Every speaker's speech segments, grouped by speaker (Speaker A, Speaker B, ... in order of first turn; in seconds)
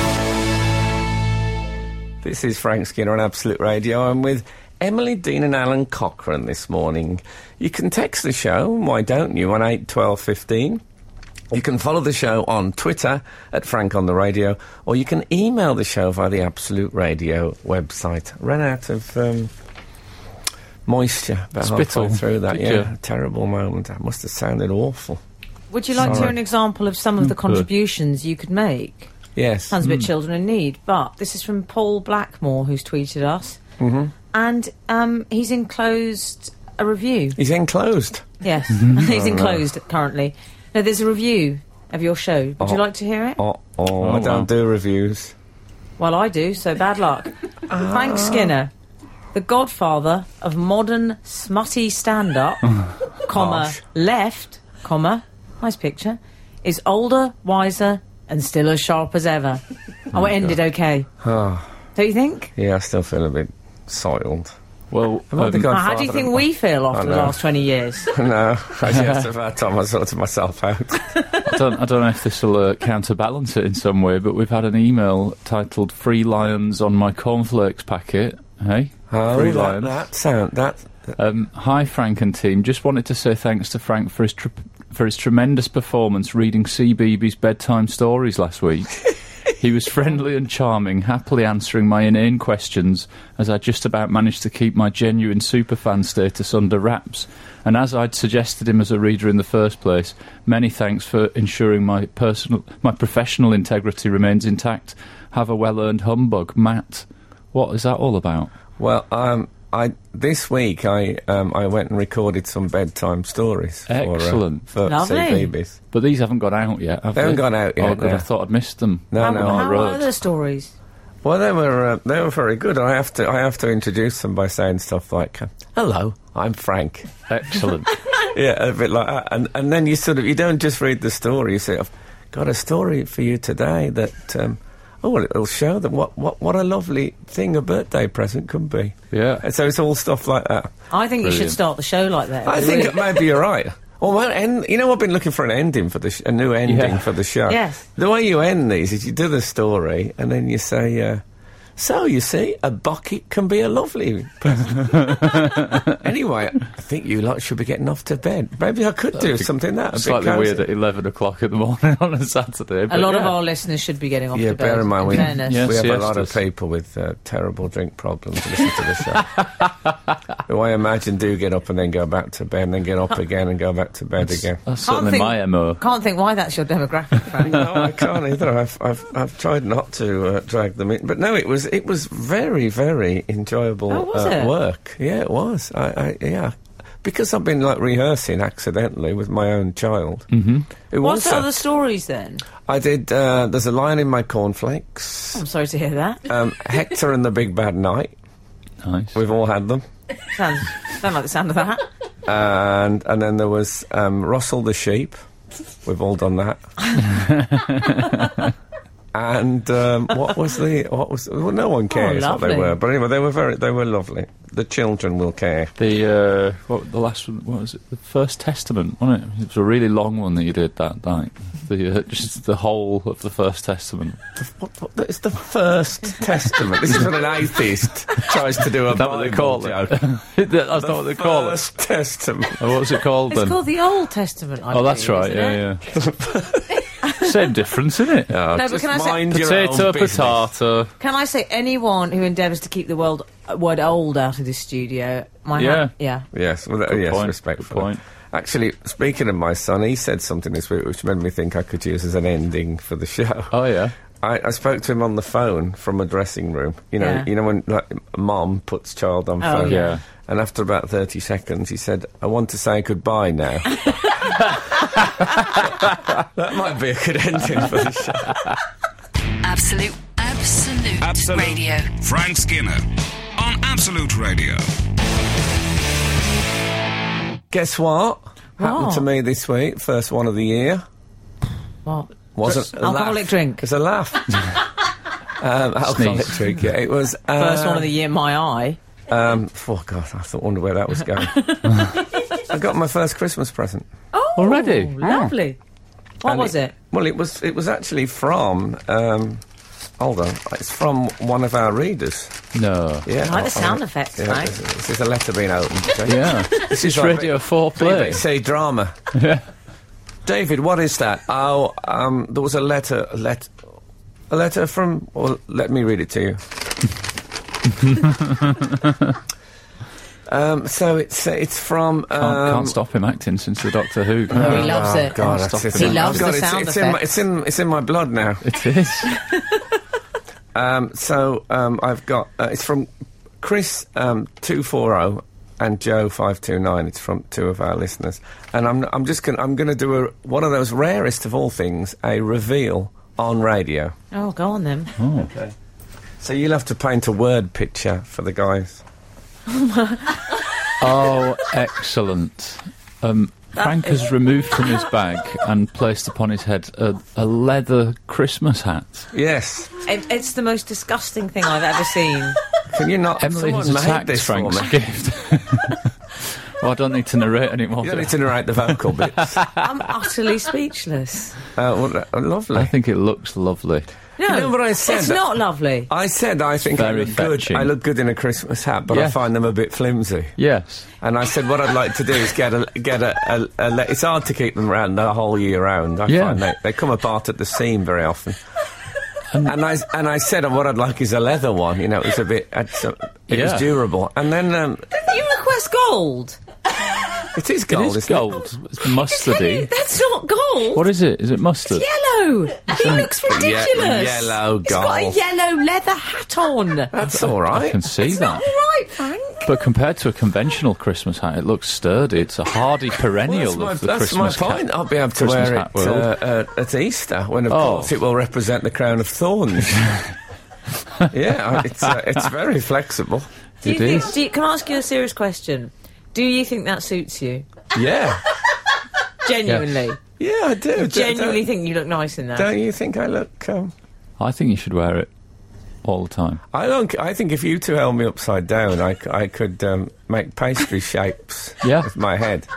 Speaker A: 2.2-10.8, 11.5-19.5, 20.9-25.2, 26.0-26.3, 29.4-29.8, 33.8-34.1, 37.4-38.3, 39.0-39.6, 43.4-45.3, 47.7-48.5, 53.3-53.8, 61.2-61.7, 62.5-64.5, 65.3-67.4, 68.1-71.0, 79.1-81.1, 108.8-115.8, 117.1-118.2, 119.1-119.9, 121.2-127.1, 128.1-140.7, 142.4-151.2, 151.8-160.7, 164.3-169.3, 170.5-174.6, 177.4-190.3, 190.9-191.6, 192.7-195.4, 196.2-198.1, 199.1-199.8, 202.2-205.2, 205.8-206.6, 209.1-215.7, 224.4-230.1, 230.8-232.8, 235.9-236.8, 238.3-240.5, 246.3-253.5, 254.2-264.4, 265.6-268.5, 277.5-280.8, 282.3-284.4, 285.4-287.9, 289.1-291.6, 292.4-293.9, 296.2-299.4, 300.0-302.4, 303.0-309.0, 310.2-313.5, 314.3-316.4, 320.3-322.8, 324.3-328.4, 330.5-332.9, 333.4-343.9, 346.2-348.8, 359.1-359.8, 362.7-364.8, 367.8-369.4, 371.5-372.7, 374.2-375.2, 375.9-380.3, 381.0-388.4, 389.4-394.9, 397.3-398.3, 403.0-405.2, 406.9-407.8, 413.3-419.9, 421.1-423.3, 427.7-428.2, 430.2-431.4, 432.3-433.7, 436.5-442.5
Speaker B: 21.6-22.9, 26.0-26.3, 27.2-27.6, 29.8-30.1, 44.0-44.5, 60.1-60.5, 64.9-65.7, 68.9-69.2, 71.4-80.0, 81.2-108.5, 113.9-114.7, 115.9-120.1, 127.3-128.0, 139.1-139.4, 141.2-141.6, 146.6-147.1, 154.7-156.0, 159.1-163.3, 165.2-166.4, 169.1-169.7, 174.2-175.8, 177.5-177.9, 190.3-190.7, 198.8-199.2, 207.0-208.5, 215.8-224.2, 228.7-231.6, 232.6-233.6, 234.7-235.8, 237.2-238.3, 239.3-240.9, 245.6-245.9, 246.9-248.0, 253.5-253.9, 259.6-260.0, 285.8-286.6, 294.4-295.3, 302.5-303.1, 306.1-308.2, 309.1-309.4, 317.8-319.1, 322.2-326.3, 328.4-329.1, 345.0-345.3, 350.8-359.1, 363.2-369.6, 372.5-373.9, 376.7-377.7, 378.9-379.2, 380.4-380.9, 386.1-386.5, 389.3-389.5, 393.3-393.7, 397.7-399.7, 400.7-401.9, 402.7-403.1, 407.0-408.5, 409.4-414.6, 415.1-416.1, 417.5-417.9, 423.6-424.1, 429.4-429.7, 434.2-435.1, 435.8-436.4, 441.6-441.9
Speaker C: 25.7-29.1, 29.7-33.6, 34.3-37.4, 38.4-43.4, 46.0-48.7, 49.3-61.1, 61.9-62.5, 65.6-68.1, 114.8-115.5, 119.2-120.7, 140.9-143.2, 147.5-147.8, 162.9-165.6, 174.8-177.6, 183.9-184.5, 191.0-192.4, 195.3-196.2, 200.3-201.8, 211.9-212.8, 233.3-235.6, 237.0-237.3, 238.5-239.2, 241.0-246.2, 257.0-257.3, 259.4-260.0, 263.8-264.1, 278.6-279.1, 281.8-283.6, 287.4-288.8, 291.3-292.0, 294.1-295.6, 296.2-296.7, 303.2-304.6, 324.3-327.0, 344.1-344.9, 349.5-350.2, 353.6-354.1, 359.8-362.4, 369.6-371.4, 374.2-375.9, 394.9-396.4, 398.8-400.8, 401.7-406.9, 408.0-409.5, 423.6-427.5, 429.2-430.0, 430.7-432.5
Speaker D: 269.4-271.9
Speaker E: 271.0-272.8, 273.4-274.7